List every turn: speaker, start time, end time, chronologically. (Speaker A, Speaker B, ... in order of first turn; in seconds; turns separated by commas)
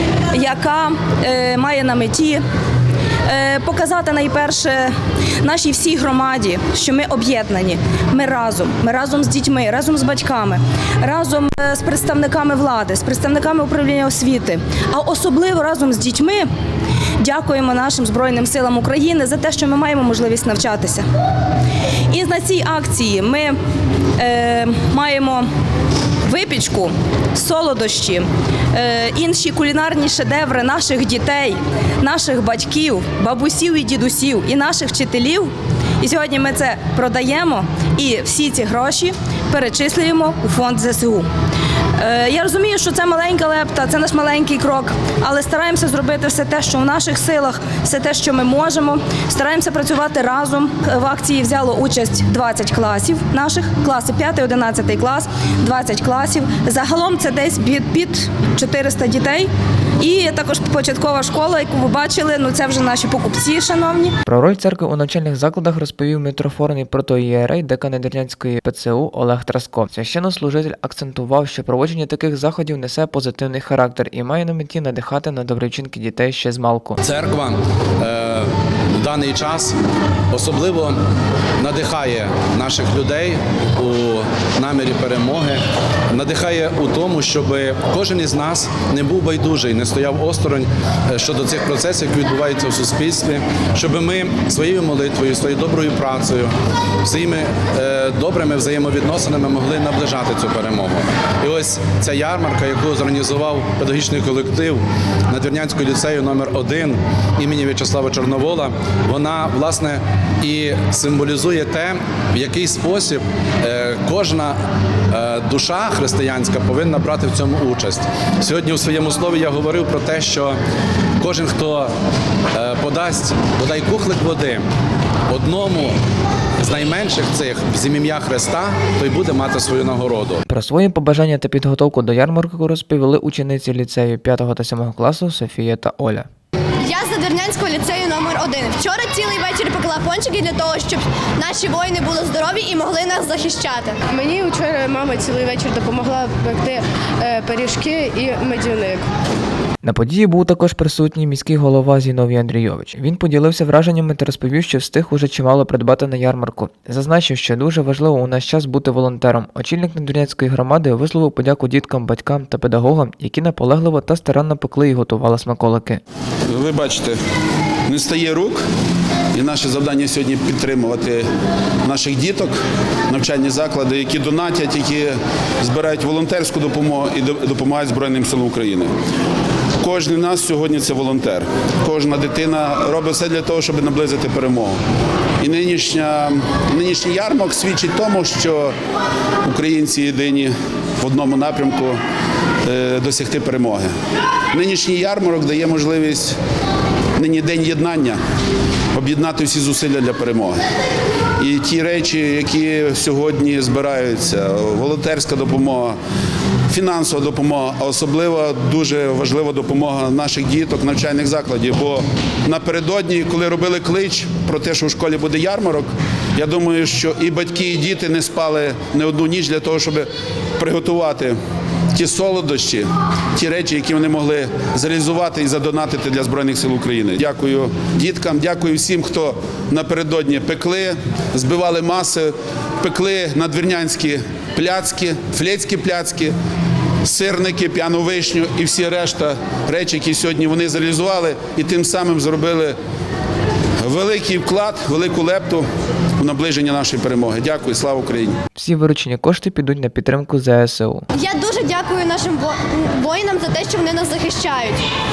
Speaker A: 0.3-2.4, Speaker A: 3.3-16.5, Speaker A: 17.2-21.0, Speaker A: 22.1-23.6, Speaker A: 24.2-25.5, Speaker A: 26.2-41.3, Speaker A: 42.0-64.2, Speaker B: 64.2-77.0, Speaker C: 77.0-79.8, Speaker C: 80.3-81.0, Speaker C: 81.6-114.6, Speaker C: 115.1-120.5, Speaker C: 121.2-121.9, Speaker C: 122.5-124.7, Speaker C: 125.3-126.0, Speaker C: 126.6-130.4, Speaker B: 130.5-136.3, Speaker D: 136.8-144.0, Speaker E: 144.1-149.0, Speaker B: 149.8-166.0, Speaker F: 166.5-167.2, Speaker F: 167.9-168.6, Speaker F: 169.3-171.2, Speaker F: 171.8-172.6, Speaker F: 173.1-178.9, Speaker F: 179.8-184.8, Speaker F: 185.4-188.7, Speaker F: 189.4-192.0, Speaker F: 192.6-193.9, Speaker F: 194.5-196.4, Speaker F: 197.2-198.2, Speaker F: 198.9-200.6, Speaker F: 201.4-206.0, Speaker F: 206.7-221.4, Speaker F: 221.9-236.3, Speaker F: 237.0-242.8, Speaker F: 243.8-245.7, Speaker F: 246.2-248.4, Speaker B: 248.5-251.0, Speaker D: 251.1-254.8